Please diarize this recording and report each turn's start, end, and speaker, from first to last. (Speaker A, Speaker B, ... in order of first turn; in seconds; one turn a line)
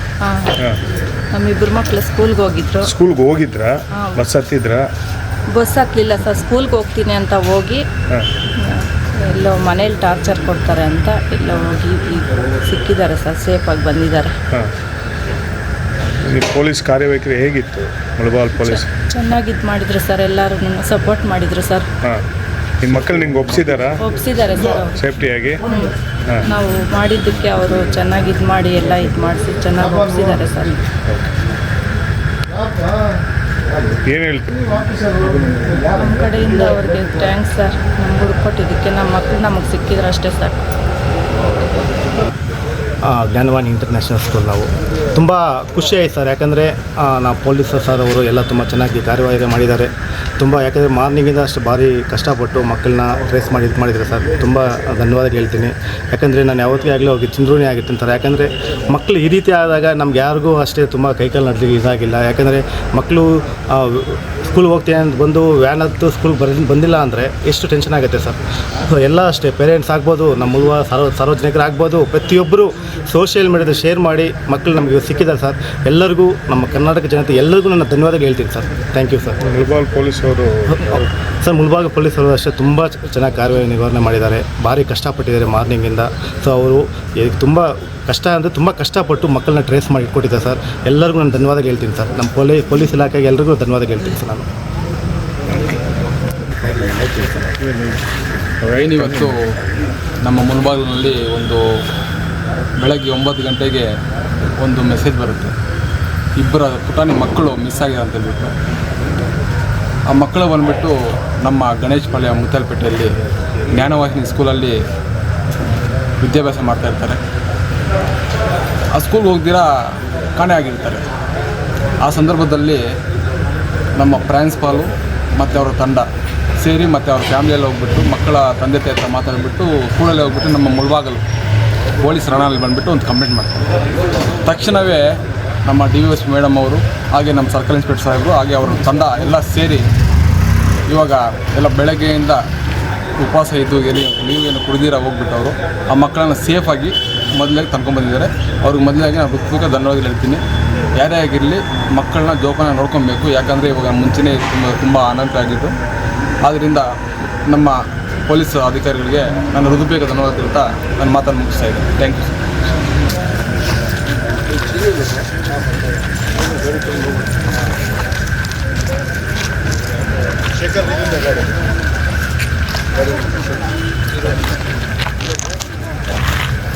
Speaker A: 0.2-0.6
Speaker A: 1.3-2.9
Speaker B: 2.9-4.9
Speaker A: 4.0-4.3
Speaker A: 5.5-7.8
Speaker A: 8.6-14.3
Speaker B: 16.2-18.9
Speaker A: 18.5-21.9
Speaker B: 22.8-24.0
Speaker A: 24.0-24.9
Speaker B: 25.0-25.6
Speaker A: 25.7-25.9
Speaker A: 26.4-30.8
Speaker B: 34.0-34.8
Speaker A: 35.8-40.6
Speaker C: 43.1-79.4
Speaker B: 79.5-81.0
Speaker C: 80.8-94.5
Speaker D: 96.8-97.5
Speaker D: 98.6-99.4
Speaker D: 100.2-101.6
Speaker D: 102.8-103.8
Speaker D: 104.6-105.5
Speaker D: 106.4-108.5
Speaker D: 110.1-113.1
Speaker D: 113.7-114.8
Speaker D: 116.2-117.2
Speaker D: 118.9-119.7
Speaker D: 120.3-121.0
Speaker D: 122.0-122.8
Speaker D: 124.0-126.1
Speaker D: 126.6-131.2
Speaker D: 132.0-133.6
Speaker D: 134.4-135.0
Speaker D: 135.7-139.8
Speaker D: 140.9-142.4
Speaker D: 143.2-150.4
Speaker D: 151.0-155.8
Speaker D: 156.4-156.9
Speaker D: 157.5-157.8
Speaker D: 158.3-162.4